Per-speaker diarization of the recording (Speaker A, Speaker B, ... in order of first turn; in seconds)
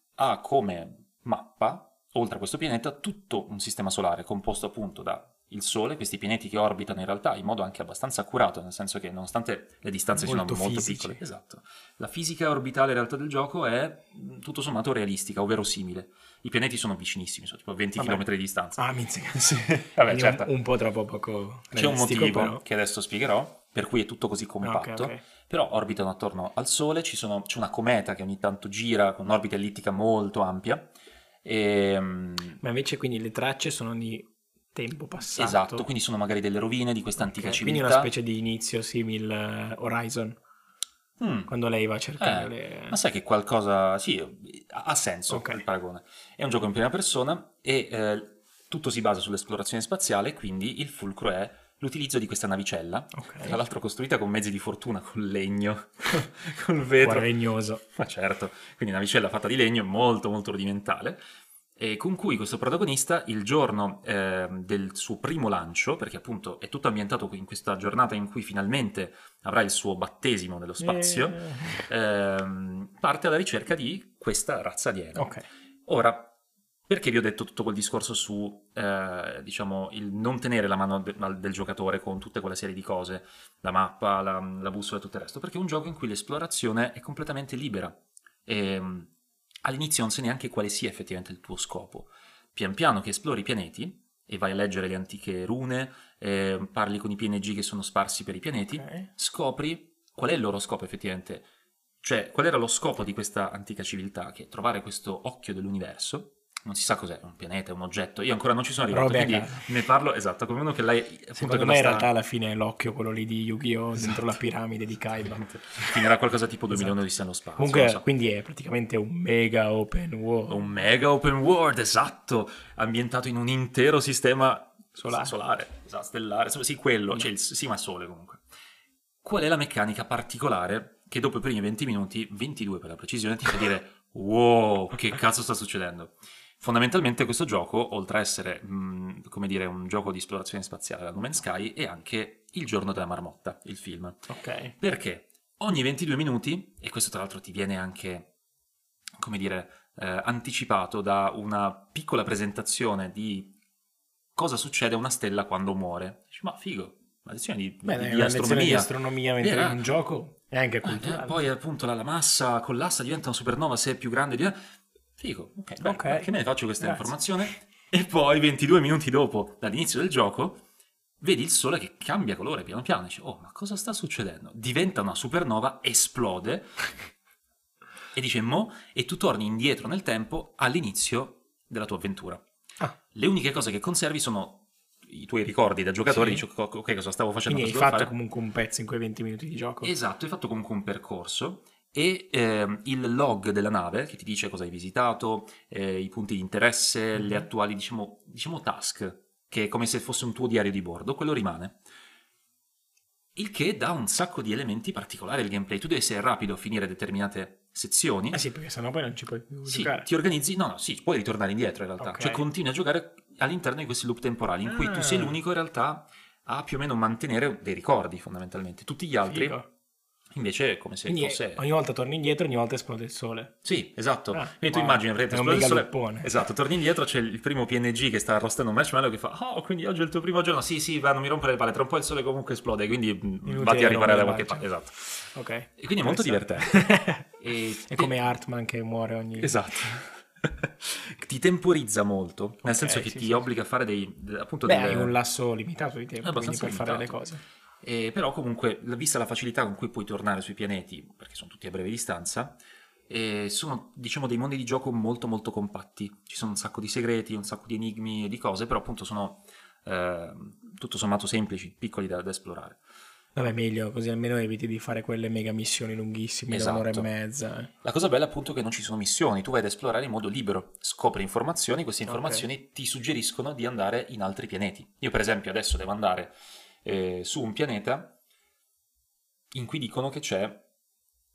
Speaker A: 0.1-18.8, 19.3-20.5, 21.7-30.9, 31.4-32.6, 35.4-38.1, 41.2-41.5, 42.2-57.3, 57.9-61.2, 61.8-75.3, 75.9-76.3, 76.9-89.1, 89.6-101.5, 102.0-112.1, 115.3-118.0, 120.5-128.4, 129.2-148.3, 149.2-153.5, 154.3-159.9, 160.8-170.6, 171.2-176.9, 178.1-182.4, 183.1-188.1, 189.8-201.8, 203.3-208.4, 209.7-219.6, 220.3-221.6, 223.6-238.1, 239.4-245.2, 246.2-247.2, 247.8-262.8, 266.5-267.1, 267.8-278.1, 279.5-280.6
Speaker B: 10.2-11.2, 18.0-18.2, 18.8-22.6, 24.6-25.2, 32.6-35.9, 37.2-40.4, 41.5-43.0, 45.3-45.6, 53.1-53.6, 57.0-57.8, 70.8-71.9, 75.2-75.4, 98.7-99.1, 108.9-109.6, 111.4-115.9, 117.6-120.6, 125.0-125.3, 144.3-144.7, 157.8-161.4, 165.8-167.2, 186.1-186.4, 187.5-189.9, 197.1-197.5, 208.3-210.1, 212.0-212.4, 214.6-215.4, 219.3-219.7, 221.1-223.6, 224.3-226.3, 233.4-234.7, 235.3-237.3, 237.9-239.6, 242.6-243.5, 244.6-247.4, 263.4-267.7, 272.0-272.4